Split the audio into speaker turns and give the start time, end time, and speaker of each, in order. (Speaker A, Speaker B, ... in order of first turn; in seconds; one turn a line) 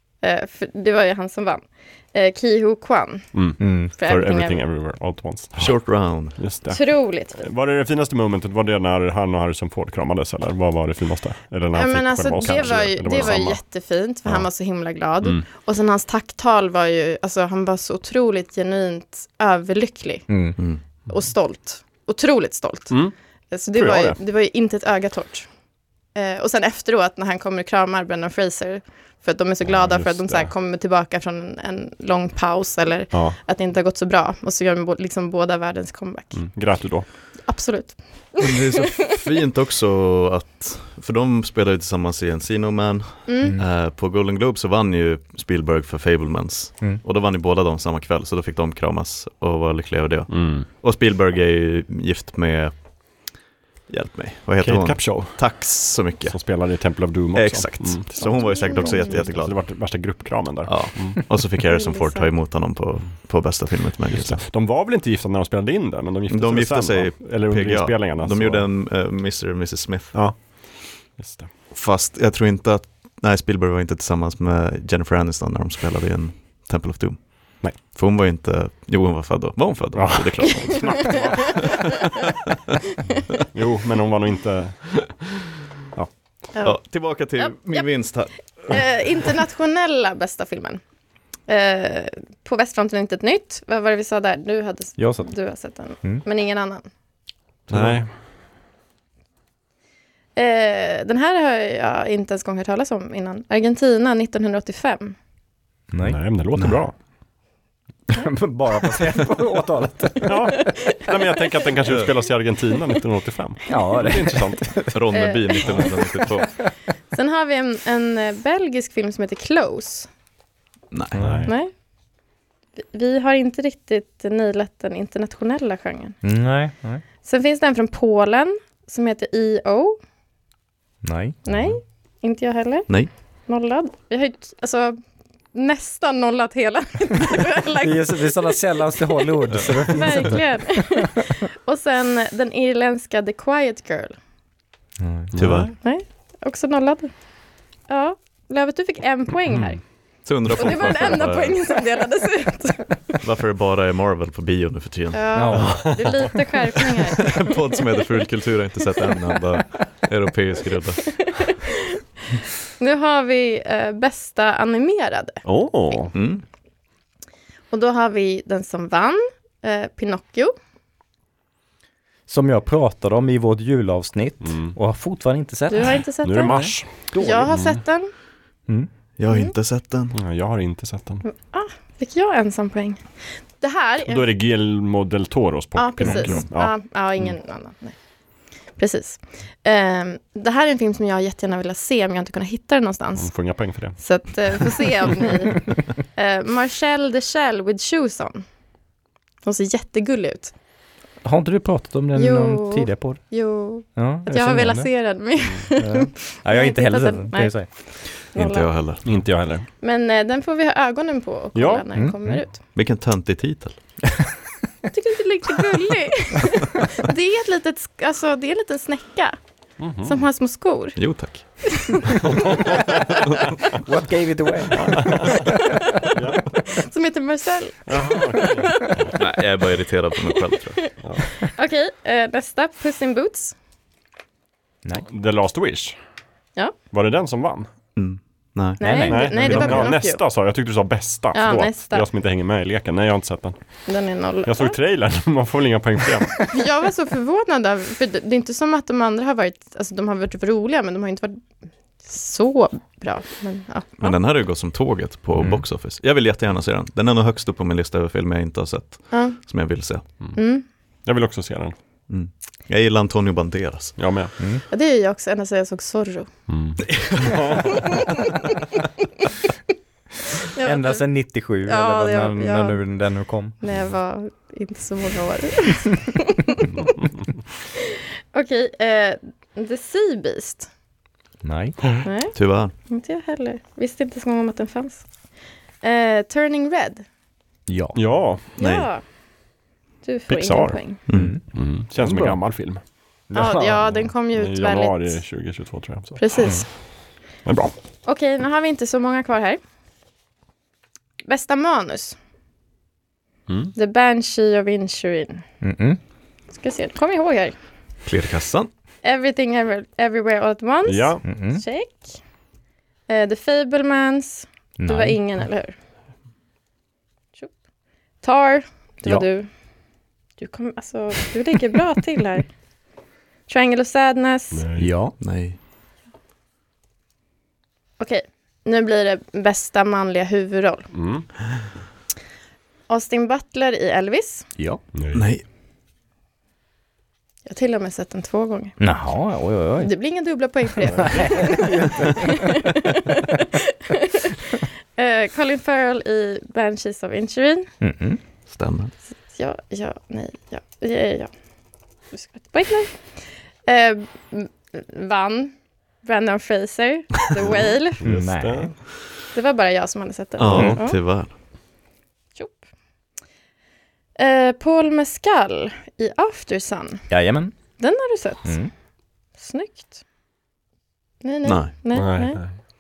Speaker A: 0.2-4.6
Speaker B: 3.3-13.7
Speaker C: 3.6-3.9
Speaker D: 5.6-6.4
Speaker A: 6.7-7.4
Speaker A: 11.7-20.3
Speaker C: 20.3-20.6
Speaker A: 21.1-25.5
Speaker B: 23.7-24.2
Speaker A: 26.1-36.7
Speaker B: 29.6-30.5
Speaker B: 33.1-33.4
Speaker B: 36.3-37.1
Speaker A: 37.4-38.8
Speaker D: 38.4-52.7
Speaker A: 43.3-43.5
Speaker B: 50.3-50.7
Speaker D: 53.9-56.4
Speaker B: 54.6-61.4
Speaker D: 57.3-59.6
Speaker A: 58.2-59.3
Speaker D: 60.6-64.4
Speaker A: 61.6-62.3
Speaker B: 64.1-68.7
Speaker D: 66.3-70.2
Speaker B: 70.1-71.5
Speaker D: 71.7-81.7
Speaker B: 79.9-81.9
Speaker A: 80.6-81.2
Speaker B: 83.5-85.3
Speaker A: 86.5-88.0
Speaker D: 86.6-88.8
Speaker A: 88.6-90.8
Speaker A: 91.5-96.9
Speaker C: 95.0-95.3
Speaker C: 96.0-96.2
Speaker B: 97.7-98.1
Speaker A: 100.4-105.2
Speaker C: 105.9-106.2
Speaker B: 106.0-107.0
Speaker D: 106.5-106.8
Speaker C: 108.2-110.3
Speaker B: 110.2-114.8
Speaker A: 110.5-111.7
Speaker C: 113.7-114.9
Speaker D: 114.9-116.7
Speaker A: 115.1-116.2
Speaker B: 115.7-115.9
Speaker A: 117.1-120.1
Speaker D: 120.9-121.2
Speaker C: 121.1-121.5
Speaker B: 121.2-121.5
Speaker A: 121.5-121.7
Speaker A: 122.8-126.2
Speaker C: 126.2-127.0
Speaker A: 127.2-130.0
Speaker C: 131.0-131.4
Speaker A: 131.5-135.0
Speaker A: 135.5-138.6
Speaker C: 137.8-140.6
Speaker A: 139.9-144.2
Speaker C: 145.0-145.3
Speaker B: 145.3-145.7
Speaker D: 145.3-145.7
Speaker A: 145.8-147.3
Speaker A: 147.9-153.2
Speaker D: 150.2-151.6
Speaker D: 153.2-155.8
Speaker A: 155.1-157.8
Speaker C: 155.3-155.8
Speaker B: 155.5-156.3
Speaker D: 157.2-161.3
Speaker A: 161.4-162.0
Speaker A: 162.8-166.0
Speaker B: 165.4-166.1
Speaker D: 166.2-166.4
Speaker A: 167.7-170.5
Speaker C: 172.3-177.5
Speaker B: 174.4-174.8
Speaker A: 175.7-178.1
Speaker B: 176.2-177.8
Speaker D: 179.2-180.2
Speaker B: 180.2-181.2
Speaker A: 181.2-184.2
Speaker B: 184.1-186.7
Speaker A: 185.8-188.0
Speaker A: 188.8-198.4
Speaker B: 193.2-194.7
Speaker A: 199.4-200.5
Speaker C: 201.2-203.3
Speaker A: 202.2-208.7
Speaker C: 203.8-204.9
Speaker C: 205.8-207.7
Speaker D: 208.3-209.0
Speaker B: 209.0-209.7
Speaker A: 209.8-212.6
Speaker B: 211.5-212.3
Speaker C: 211.9-212.4
Speaker D: 212.7-213.8
Speaker A: 214.9-219.4
Speaker B: 219.8-220.2
Speaker A: 220.0-222.8
Speaker D: 221.0-222.1
Speaker C: 223.8-225.9
Speaker B: 224.8-225.5
Speaker B: 226.2-226.4
Speaker A: 226.7-228.9
Speaker B: 227.9-229.1
Speaker D: 229.2-231.0
Speaker A: 231.4-233.6
Speaker B: 235.1-236.0
Speaker B: 236.9-237.7
Speaker D: 237.9-239.9
Speaker A: 238.8-240.2
Speaker C: 238.8-239.6
Speaker B: 239.1-243.9
Speaker A: 241.3-242.1
Speaker A: 243.9-244.8
Speaker B: 244.4-246.5
Speaker A: 246.5-251.4
Speaker A: 252.0-254.2
Speaker D: 254.0-260.0
Speaker C: 255.4-255.6
Speaker A: 259.1-259.4
Speaker A: 260.4-260.6
Speaker B: 261.1-261.8
Speaker D: 262.1-264.0
Speaker B: 264.0-264.3
Speaker A: 264.7-266.3
Speaker B: 266.5-267.9
Speaker D: 266.9-267.4
Speaker A: 267.6-268.3
Speaker A: 270.5-271.1
Speaker C: 270.6-273.6
Speaker A: 271.6-272.9
Speaker A: 273.6-276.7
Speaker A: 278.3-280.7
Speaker C: 281.4-281.8
Speaker A: 282.0-285.1
Speaker D: 282.3-282.7
Speaker A: 285.8-287.1
Speaker C: 287.7-288.0
Speaker B: 287.9-288.4
Speaker D: 288.6-288.9
Speaker A: 288.6-289.1
Speaker A: 290.0-291.0
Speaker B: 290.3-292.8
Speaker D: 291.1-291.3
Speaker C: 291.1-292.4
Speaker C: 293.3-294.0
Speaker A: 293.3-295.2
Speaker B: 294.3-296.2
Speaker A: 296.2-296.6
Speaker B: 297.4-297.7
Speaker A: 298.1-299.6
Speaker A: 301.2-302.2
Speaker A: 303.8-305.4
Speaker C: 305.6-306.0
Speaker A: 306.5-307.5
Speaker D: 308.1-308.7
Speaker A: 309.0-312.1
Speaker B: 310.9-311.2
Speaker C: 311.2-311.6
Speaker A: 313.1-315.8
Speaker C: 314.8-315.2
Speaker A: 318.2-319.5
Speaker A: 320.4-322.5
Speaker A: 323.5-324.6
Speaker B: 324.5-324.9
Speaker C: 324.8-325.1
Speaker D: 325.2-325.6
Speaker A: 328.0-330.9
Speaker B: 330.9-331.3
Speaker A: 332.9-334.5
Speaker C: 334.6-334.8
Speaker B: 334.9-335.2
Speaker D: 335.1-335.4
Speaker A: 337.5-338.8
Speaker C: 338.8-339.9
Speaker A: 339.8-344.4
Speaker C: 341.1-342.3
Speaker A: 345.0-347.7
Speaker C: 347.8-348.2
Speaker D: 348.5-348.9
Speaker A: 349.3-351.3
Speaker A: 352.1-358.0
Speaker B: 357.9-358.7
Speaker C: 358.0-358.7
Speaker A: 359.3-361.0
Speaker D: 360.4-361.3
Speaker B: 360.4-360.8
Speaker A: 364.2-367.1
Speaker C: 367.1-367.6
Speaker A: 367.8-368.6
Speaker C: 368.4-368.7
Speaker A: 369.4-369.9
Speaker A: 371.2-372.4
Speaker D: 371.4-371.7
Speaker B: 371.9-372.5